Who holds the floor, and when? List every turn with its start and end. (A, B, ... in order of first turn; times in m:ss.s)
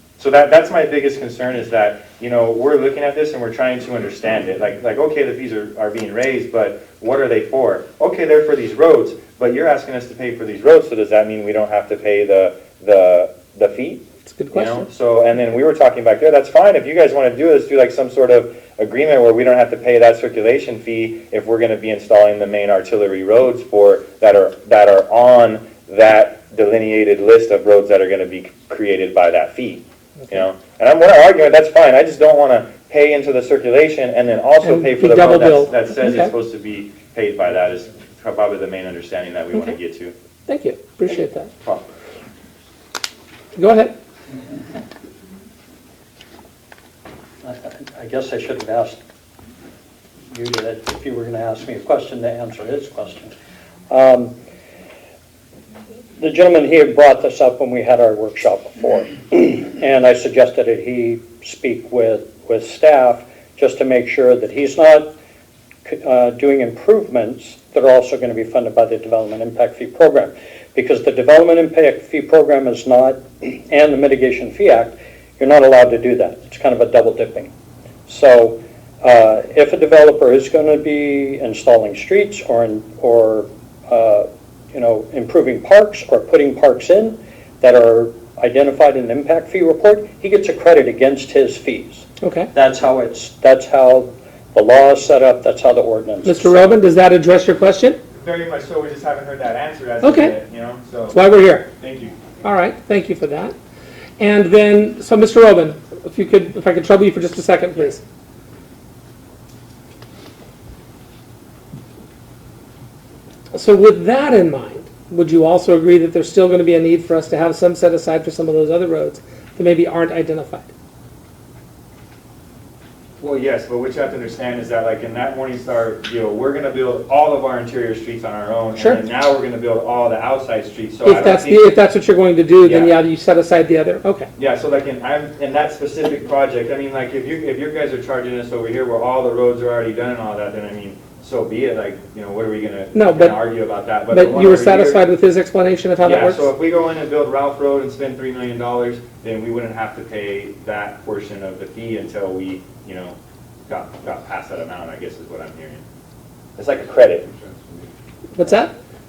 0:00.2-0:40.1 A
0:14.2-0:14.9 B
0:34.6-0:36.3 B
0:40.5-0:41.5 B
0:41.6-0:41.9 A
0:43.6-0:43.9 B
0:47.4-0:49.0 C
0:50.3-0:53.3 C
0:53.9-0:54.4 C
0:56.2-1:05.1 C
1:05.8-1:17.5 C
1:18.1-1:36.6 C
1:32.2-1:32.5 B
1:36.2-1:38.0 B
1:38.1-1:41.2 A
1:40.0-1:40.4 B
1:41.1-1:41.7 B
1:41.8-1:42.1 A
1:42.4-1:43.5 B
1:44.2-1:48.0 B
1:53.5-2:00.7 B
2:03.2-2:11.7 A
2:08.8-2:09.0 B
2:11.0-2:14.3 B
2:12.6-2:13.0 A
2:14.4-2:25.0 A
2:22.9-2:23.4 B
2:24.1-2:26.5 B
2:26.0-2:33.2 A
2:33.7-2:35.8 A
2:36.6-2:37.3 A
2:38.4-2:38.7 B